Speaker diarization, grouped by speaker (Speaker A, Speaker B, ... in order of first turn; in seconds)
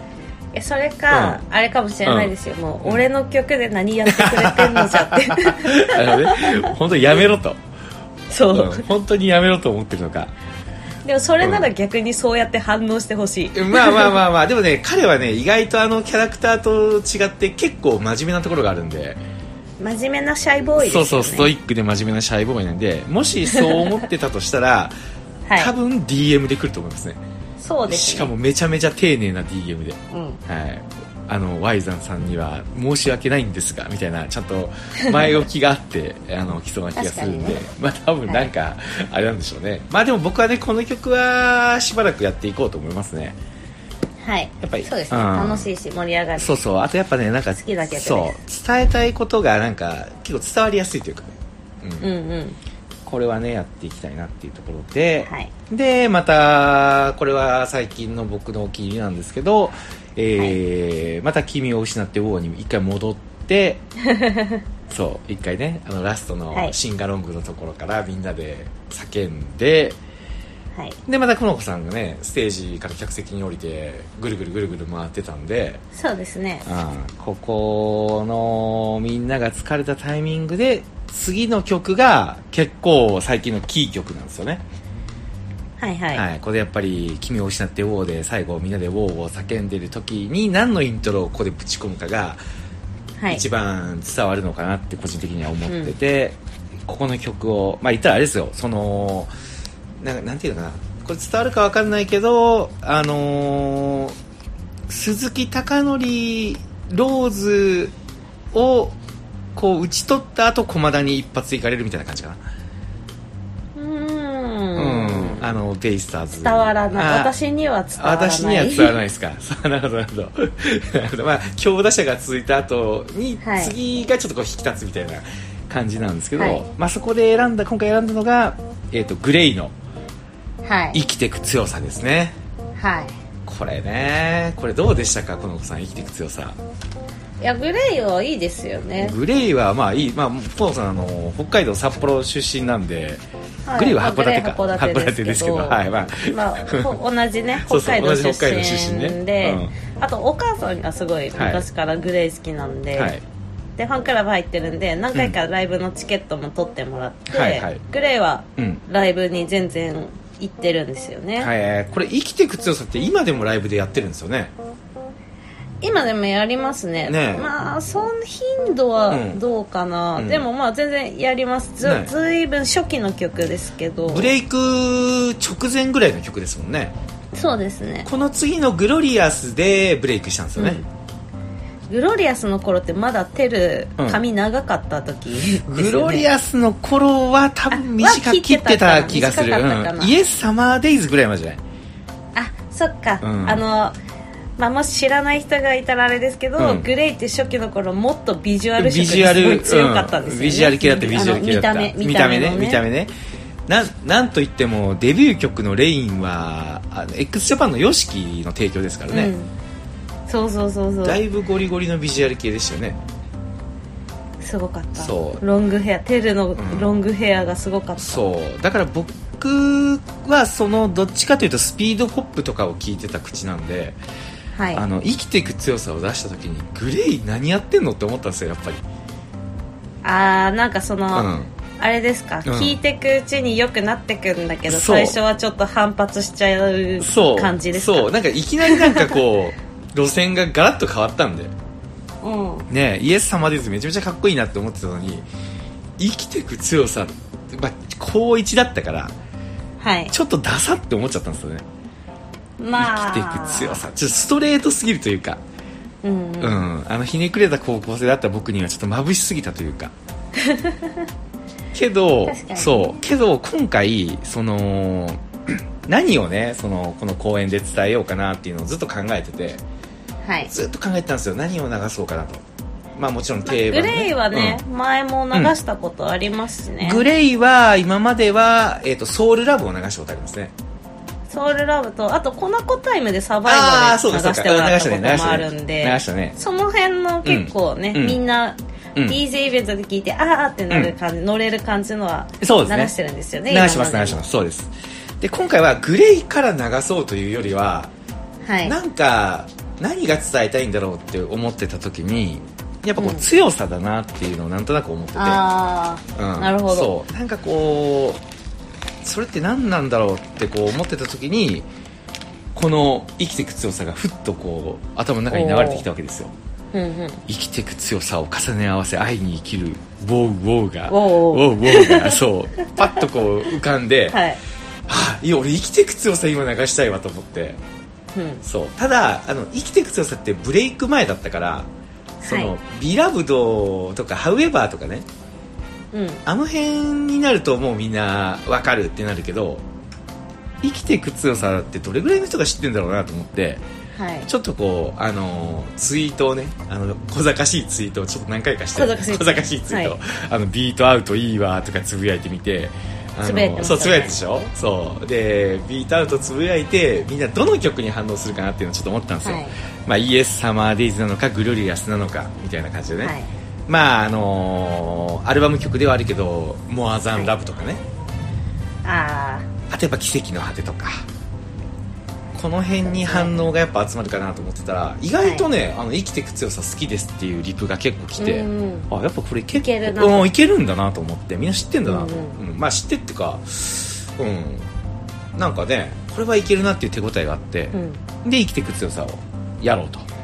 Speaker A: 0.5-6.7, 8.3-8.8, 11.0-14.1, 19.8-21.5, 23.5-23.9, 25.4-25.7, 27.6-28.3, 30.1-30.4, 37.0-37.6, 44.2-46.5, 47.5-48.4, 52.0-52.6, 55.2-55.5, 64.0-64.6, 75.9-76.7, 85.8-86.2, 93.2-93.4, 95.7-95.9, 113.7-115.5, 116.3-119.0, 123.4-123.7, 126.4-126.6, 130.6-131.0, 132.8-133.2, 137.4-139.2, 143.7-153.2, 153.8-161.5, 165.8-174.3, 177.3-178.1, 180.6-180.8, 181.9-186.3, 187.7-190.2, 192.3-193.9, 194.6-202.8, 209.1-209.5, 210.3-211.2, 214.4-218.2, 224.5-224.8, 230.0-238.1, 238.6-239.2, 242.2-242.7, 249.8-250.1, 252.6-253.8, 256.0-256.7, 260.3-261.1, 262.2-263.0, 270.2-270.5, 273.4-277.0, 281.3-294.2, 298.4-298.8, 303.0-303.3, 305.1-306.9, 315.3-315.9, 316.7-317.2, 320.9-322.2, 324.1-324.4, 328.1-328.4, 332.2-332.5, 335.9-336.2, 343.9-344.3, 348.7-349.9, 353.2-354.1, 359.2-359.5, 363.0-363.3, 368.8-369.5, 372.8-373.4, 375.2-375.5, 378.2-378.9, 379.5-380.3, 381.8-382.4, 387.7-388.0
Speaker B: 1.1-1.4, 2.0-2.3, 4.1-7.6, 8.5-10.3, 11.4-11.7, 13.5-19.2, 20.8-24.9, 25.6-27.2, 27.9-43.4, 44.6-45.7, 46.4-52.1, 53.0-63.8, 64.9-70.0, 71.0-75.8, 76.6-84.6, 86.1-92.4, 93.3-99.3, 100.0-104.1, 104.9-107.9, 108.5-109.0, 109.5-112.4, 114.8-117.3, 118.0-129.7, 130.9-132.4, 133.4-136.6, 139.0-143.2, 143.7-146.9, 147.6-149.7, 151.3-151.6, 152.9-153.2, 157.3-157.8, 158.6-158.8, 161.4-164.5, 167.1-167.5, 169.1-169.4, 170.2-170.4, 171.8-172.1, 174.1-176.9, 178.1-180.8, 185.7-191.6, 193.2-193.6, 196.6-196.9, 198.8-203.1, 203.7-209.3, 211.0-213.0, 214.9-215.4, 216.5-216.9, 218.0-224.0, 224.7-228.8, 231.1-231.5, 232.4-232.8, 234.7-235.2, 237.0-241.5, 242.7-245.3, 246.0-249.1, 250.1-251.6, 252.8-255.4, 256.4-259.9, 261.7-269.6, 270.5-272.4, 272.9-274.6, 276.8-280.5, 283.4-286.4, 287.2-288.2, 292.4-292.9, 293.5-297.9, 298.6-305.4, 306.1-308.2, 309.0-311.7, 312.5-316.3, 317.3-324.2, 324.9-327.6, 328.4-331.7, 332.2-335.1, 336.2-339.6, 340.6-343.6, 344.2-363.1, 363.7-367.8, 369.7-371.0, 372.3-384.7, 385.4-390.1